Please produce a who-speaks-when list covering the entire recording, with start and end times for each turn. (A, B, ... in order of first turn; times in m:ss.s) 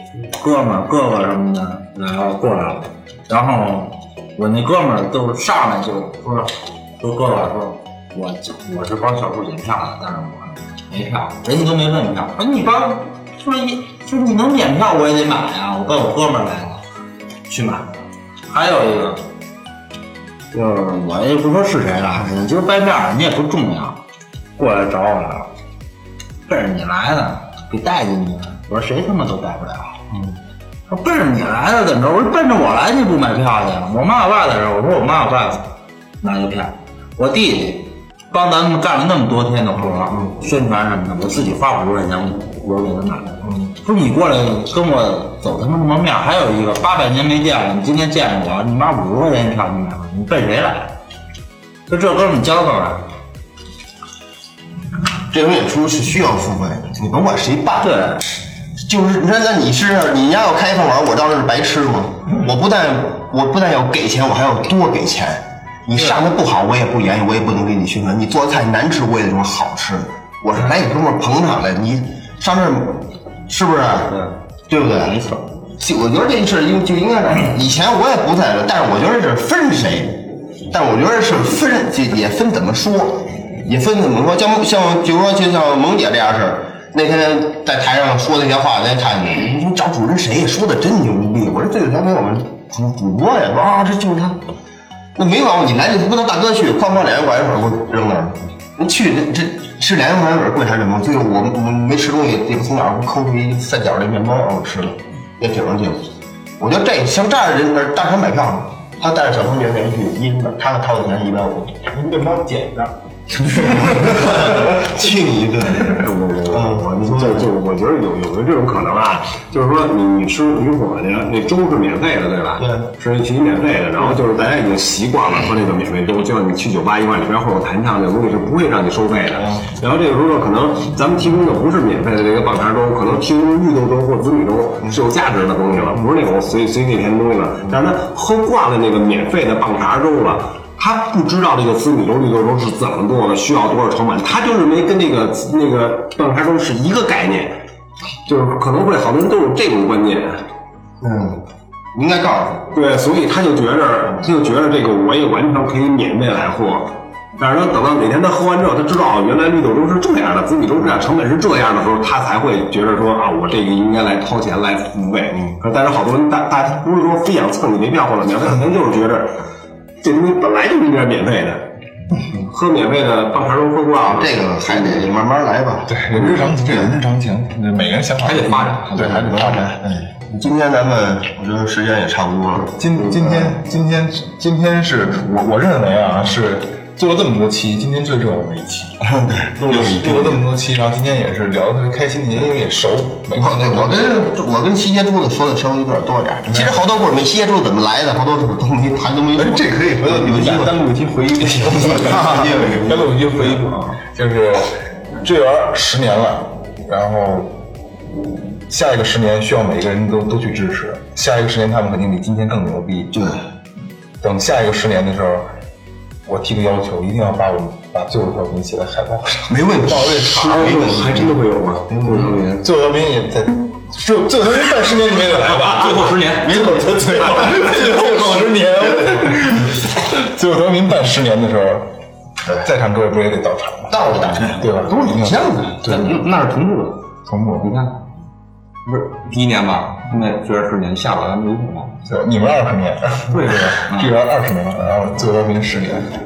0:00.4-0:16.8 A
0:17.5-0:17.9 A
0:18.5-0:19.2 A
0:20.5-0:24.0 A
0:24.6-0:25.5 A
0:26.5-0:30.0 A
0:30.9-0:35.6 A
0:36.2-0:50.9 A
0:51.9-0:53.0 A
0:55.3-0:58.0 B
0:57.8-0:58.2 A
0:58.8-1:34.4 B
1:15.0-1:15.4 A
1:35.2-1:46.1 B
1:46.6-1:51.9 B
1:51.9-1:54.8 C
1:53.6-1:57.5 B
1:55.9-2:27.6 D
2:02.6-2:02.9 B
2:28.3-2:30.4 D
2:31.0-2:32.7 B
2:32.7-2:49.3 D
2:50.0-2:51.7 D
2:52.3-2:55.1 D
2:54.0-2:57.0 B
2:55.9-2:59.8 C
2:58.2-2:59.2 E
2:58.9-3:03.5 B
3:02.8-3:09.0 C
3:09.0-3:10.4 B
3:09.6-3:14.2 C
3:13.3-3:23.7 B
3:16.5-3:16.8 C
3:19.4-3:20.8 C
3:21.4-3:27.7 C
3:28.7-3:33.2 C
3:33.1-3:33.4 B
3:34.2-3:35.5 C
3:36.2-3:40.0 C
3:39.5-3:41.4 B
3:40.1-3:42.7 E
3:41.9-3:42.4 B
3:42.6-3:51.9 C
3:45.6-3:46.8 E
3:46.6-3:49.5 B
3:52.6-3:56.2 C
3:53.9-3:55.8 B
3:55.8-3:57.0 E
3:57.3-3:57.7 C
3:57.6-3:58.0 E
3:58.9-4:02.0 E
4:02.0-4:06.1 C
4:03.3-4:04.2 E